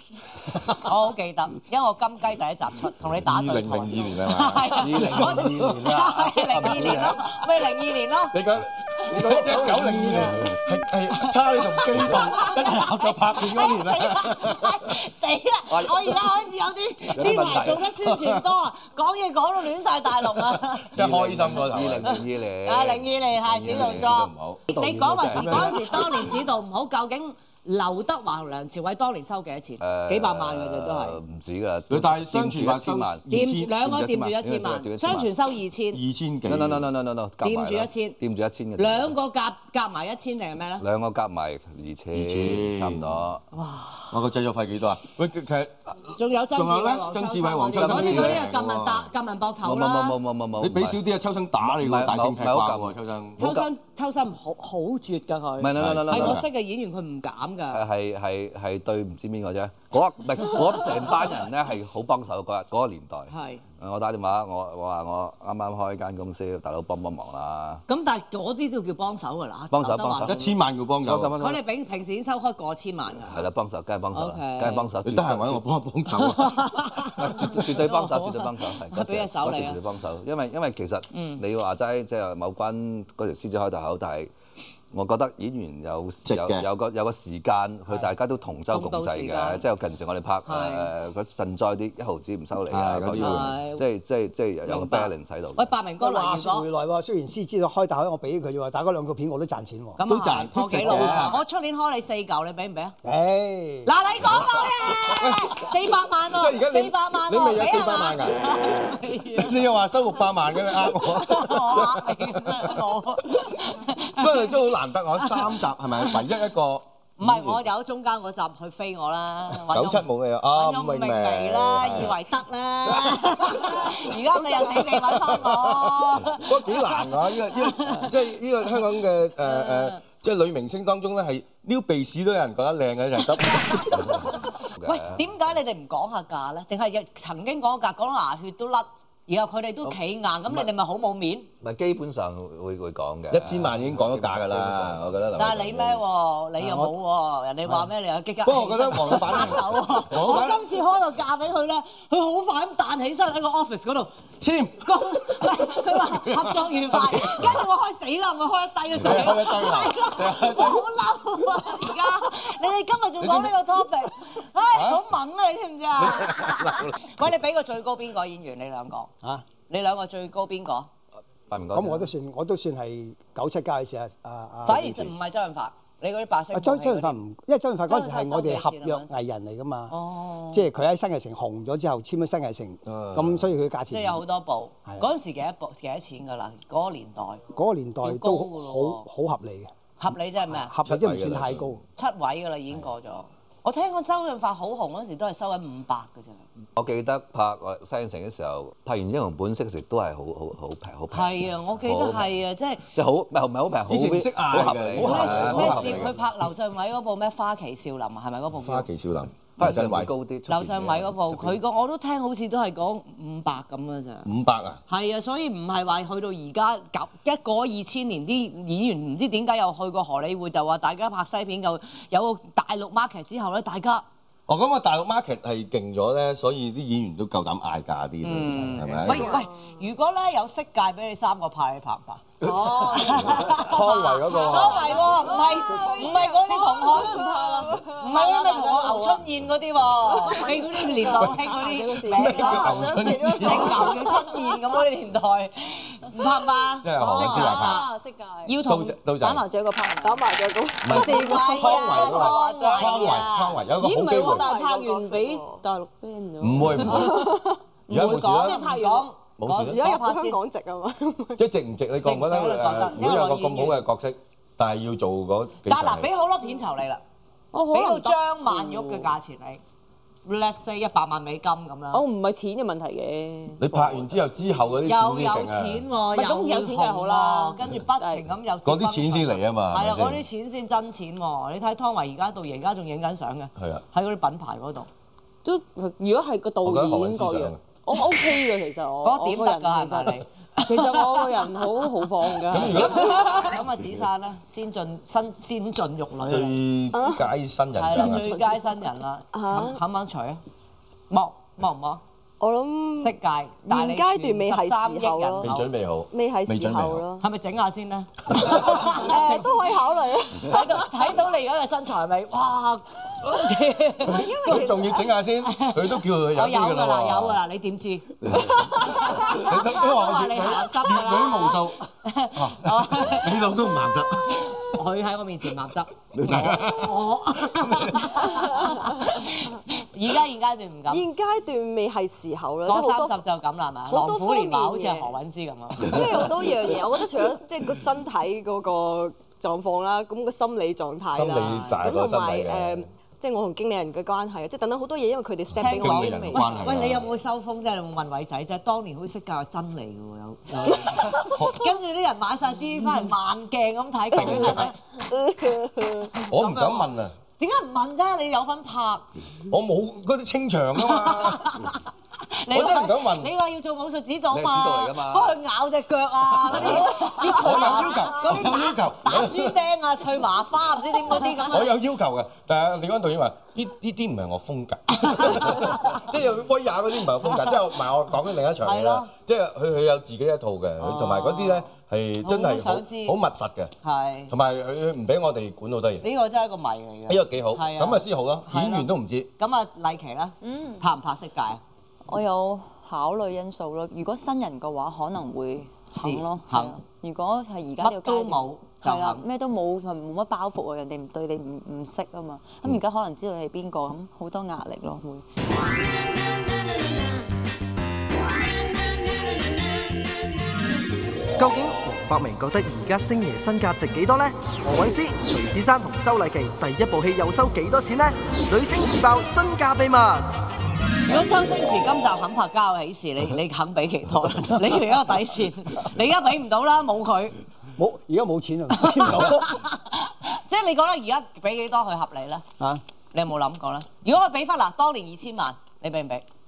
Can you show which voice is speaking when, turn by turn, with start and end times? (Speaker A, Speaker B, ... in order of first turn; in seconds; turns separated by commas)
Speaker A: 0.6-8.4, Speaker B: 3.1-5.7, Speaker C: 4.7-7.2, Speaker B: 8.3-14.8, Speaker C: 9.1-10.5, Speaker D: 9.2-10.3, Speaker A: 11.1-20.9, Speaker C: 15.7-16.1, Speaker B: 17.1-18.4, Speaker C: 17.1-17.8, Speaker B: 20.3-22.2, Speaker C: 20.9-24.1, Speaker A: 22.1-31.2, Speaker B: 23.7-24.7, Speaker C: 24.7-25.8, Speaker B: 25.2-26.3, Speaker C: 29.8-35.3, Speaker B: 31.9-33.7, Speaker A: 33.3-36.0, Speaker B: 35.9-36.9, Speaker C: 36.5-39.1, Speaker A: 37.4-38.2, Speaker A: 38.8-40.8, Speaker C: 40.8-43.4, Speaker B: 42.1-43.2, Speaker A: 43.5-44.1, Speaker B: 44.1-49.1, Speaker A: 46.1-50.2, Speaker C: 47.7-48.5, Speaker C: 49.6-51.0, Speaker B: 50.6-53.5, Speaker C: 51.6-53.7, Speaker A: 53.4-57.8, Speaker C: 55.6-56.4, Speaker B: 55.7-56.5, Speaker C: 57.7-67.8, Speaker A: 63.3-63.6, Speaker A: 67.9-70.6, Speaker C: 69.7-70.5, Speaker B: 70.2-71.3, Speaker C: 71.0-71.6, Speaker A: 71.4-73.5, Speaker C: 73.2-75.6, Speaker A: 74.1-74.9, Speaker B: 75.0-76.9, Speaker A: 76.1-79.8, Speaker C: 77.0-84.3, Speaker A: 81.1-81.4, Speaker C: 84.9-95.7, Speaker B: 86.2-86.7, Speaker A: 88.7-89.6, Speaker A: 90.4-90.9, Speaker B: 92.7-93.5, Speaker A: 93.2-93.8, Speaker A: 94.7-96.7, Speaker D: 96.0-100.0, Speaker A: 100.0-102.9, Speaker B: 100.0-101.4, Speaker D: 103.0-103.9, Speaker A: 103.8-109.6, Speaker B: 105.0-105.7, Speaker B: 106.3-108.5, Speaker B: 109.3-112.9, Speaker A: 110.9-116.2, Speaker B: 114.0-117.6, Speaker A: 117.2-128.1, Speaker B: 119.7-122.2, Speaker B: 122.9-134.2, Speaker A: 129.4-130.0, Speaker A: 133.5-141.5, Speaker C: 134.0-135.3, Speaker C: 141.6-145.2, Speaker B: 143.3-146.0, Speaker A: 145.3-154.2, Speaker B: 146.6-146.9, Speaker B: 148.4-150.7, Speaker B: 154.4-157.6, Speaker A: 154.8-169.1, Speaker B: 158.9-160.8, Speaker B: 161.6-161.9, Speaker B: 163.2-163.6, Speaker B: 164.7-165.0, Speaker B: 166.0-167.2, Speaker A: 169.7-170.9, Speaker C: 171.5-172.1, Speaker D: 171.7-174.9, Speaker A: 174.6-177.2, Speaker B: 174.7-175.1, Speaker D: 176.5-179.9, Speaker A: 177.8-179.1, Speaker A: 179.9-180.7, Speaker D: 180.5-184.2, Speaker B: 182.8-183.5, Speaker A: 183.9-187.4, Speaker D: 187.5-189.7, Speaker A: 188.0-189.1, Speaker A: 190.0-190.7, Speaker D: 190.5-191.8, Speaker B: 190.8-191.8, Speaker A: 191.9-196.4, Speaker C: 196.8-206.2, Speaker A: 201.1-202.8, Speaker B: 203.8-206.2, Speaker A: 205.0-208.9, Speaker B: 208.5-210.1, Speaker C: 209.6-211.6, Speaker A: 210.5-214.3, Speaker B: 214.2-214.8, Speaker A: 214.9-224.0, Speaker B: 224.5-229.3, Speaker A: 228.2-237.2, Speaker E: 229.0-229.7, Speaker B: 232.4-234.9, Speaker E: 232.5-233.4, Speaker E: 234.2-239.0, Speaker F: 234.4-239.2, Speaker A: 237.9-247.9, Speaker E: 240.2-244.2, Speaker B: 242.1-243.9, Speaker F: 242.5-243.4, Speaker B: 246.8-247.8, Speaker G: 247.0-248.6, Speaker A: 248.4-248.9, Speaker B: 248.6-249.4, Speaker G: 249.2-250.3, Speaker E: 250.0-252.1, Speaker B: 250.8-254.5, Speaker A: 250.9-253.6, Speaker F: 251.1-253.2, Speaker F: 253.8-259.1, Speaker E: 254.2-255.6, Speaker B: 256.4-257.3, Speaker E: 256.9-257.5, Speaker B: 257.9-258.8, Speaker A: 257.9-260.4, Speaker B: 259.4-259.8, Speaker E: 259.6-261.4, Speaker B: 261.4-266.1, Speaker A: 262.0-263.9, Speaker A: 265.6-267.0, Speaker F: 267.5-269.1, Speaker A: 267.7-269.6, Speaker A: 270.2-272.0, Speaker F: 271.9-274.0, Speaker B: 273.6-275.9, Speaker A: 274.8-284.9, Speaker F: 276.1-278.2, Speaker B: 278.6-280.2, Speaker B: 283.6-283.8, Speaker F: 285.4-293.4, Speaker B: 286.6-287.6, Speaker A: 289.0-291.8, Speaker B: 292.5-293.4, Speaker A: 292.5-296.6, Speaker B: 296.2-298.3, Speaker E: 296.9-297.3, Speaker A: 297.8-300.4, Speaker E: 297.9-298.6, Speaker E: 299.3-299.8, Speaker A: 301.1-302.0, Speaker E: 302.4-305.5, Speaker A: 303.0-305.7, Speaker B: 305.4-307.0, Speaker E: 306.1-307.2, Speaker A: 307.2-309.6, Speaker E: 308.5-310.9, Speaker A: 310.4-314.7, Speaker E: 314.0-315.2, Speaker B: 314.4-317.4, Speaker A: 315.4-323.4, Speaker B: 318.8-321.8, Speaker B: 322.3-324.7, Speaker A: 324.6-331.1, Speaker C: 326.2-326.5, Speaker B: 326.2-328.2, Speaker E: 328.5-328.9, Speaker E: 330.9-333.2, Speaker A: 332.6-336.4, Speaker E: 333.9-335.1, Speaker E: 335.8-346.6, Speaker B: 341.1-342.9, Speaker A: 341.3-341.8, Speaker B: 345.5-347.1, Speaker A: 345.6-354.9, Speaker E: 354.1-356.1, Speaker B: 354.1-354.7, Speaker A: 356.1-359.1, Speaker B: 356.3-357.1, Speaker B: 359.5-361.5, Speaker A: 360.8-371.7, Speaker B: 362.5-363.3, Speaker C: 364.3-365.4, Speaker B: 366.5-369.6, Speaker B: 371.2-383.7, Speaker A: 375.0-376.0, Speaker A: 378.6-379.1, Speaker A: 380.8-381.7, Speaker A: 382.2-383.2, Speaker A: 383.8-384.3, Speaker B: 384.3-386.1, Speaker A: 386.0-391.6, Speaker B: 387.1-389.3, Speaker G: 390.4-390.8, Speaker G: 392.1-405.2, Speaker A: 395.9-396.8, Speaker A: 397.8-399.2, Speaker H: 411.4-420.3, Speaker A: 421.1-427.4, Speaker D: 427.8-429.5, Speaker A: 428.7-432.4, Speaker A: 433.1-436.2